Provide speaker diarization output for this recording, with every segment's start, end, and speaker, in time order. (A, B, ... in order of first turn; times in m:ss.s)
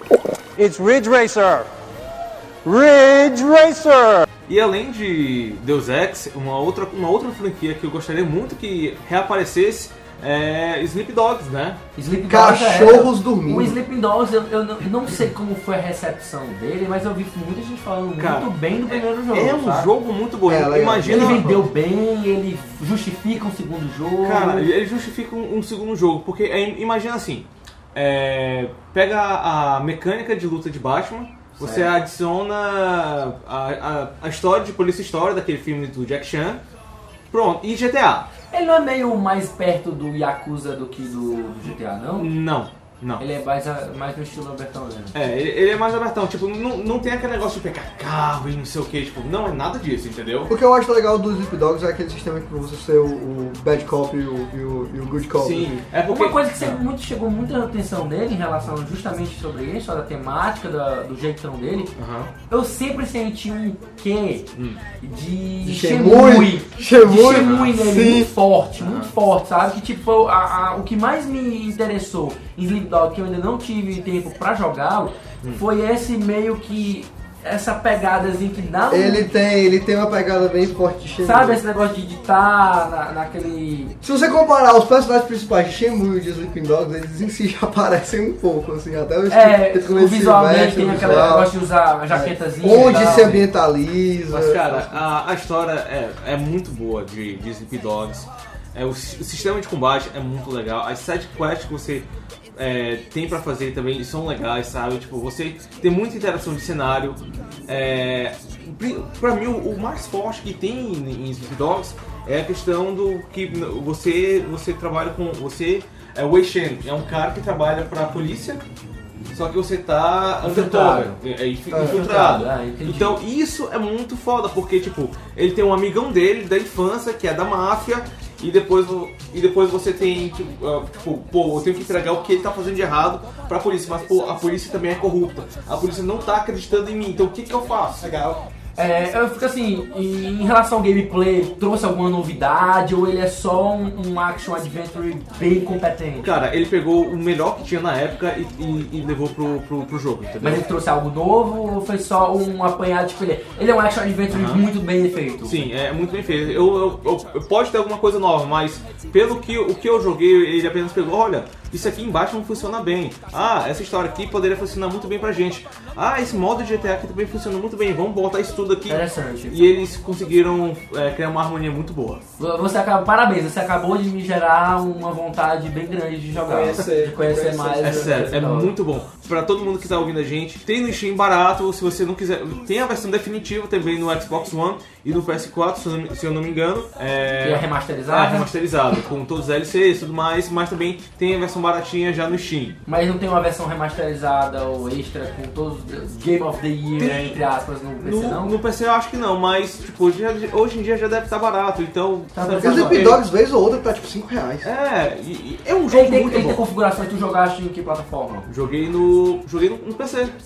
0:00.6-0:01.7 A
0:02.6-0:04.3 A
0:04.5-0:11.8 B
0:12.0-0:19.9 C
0:12.3-0:13.8 D
0:18.2-0:21.6 B
0:20.5-0:21.6 D
0:21.0-0:24.7 C
0:24.2-0:36.6 B
0:31.6-0:31.9 C
0:37.3-0:38.3 B
0:38.5-0:42.3 C
0:41.6-0:43.2 B
0:43.2-0:45.3 C
0:45.1-0:50.5 B
0:50.5-0:55.7 D
0:55.4-0:56.8 B
0:56.1-1:01.9 C
1:02.0-1:02.3 B
1:02.5-1:19.3 C
1:04.6-1:04.8 B
1:05.6-1:08.3 D
1:07.3-1:07.7 B
1:08.8-1:09.1 B
1:18.9-1:21.6 D
1:21.2-1:23.9 C
1:24.0-1:31.5 D
1:29.3-1:33.4 C
1:32.1-1:34.7 D
1:32.7-1:33.4 B
1:34.3-1:58.6 B
1:59.3-2:18.1 B
2:00.4-2:01.2 C
2:01.7-2:02.0 D
2:01.7-2:03.2 C
2:18.0-2:18.4 E
2:18.8-2:26.3 C
2:26.2-2:30.6 B
2:30.4-2:35.6 C
2:34.3-2:34.6 B
2:35.4-2:52.2 B
2:48.8-2:49.7 C
2:52.4-2:58.7 C
2:56.3-2:58.3 E
2:57.8-3:12.8 B
3:07.4-3:08.5 C
3:12.9-3:18.5 C
3:17.0-3:17.4 B
3:18.0-3:23.2 B
3:22.3-3:23.1 C
3:22.6-3:24.7 D
3:24.6-3:26.6 B
3:25.9-3:28.5 C
3:28.5-3:30.3 B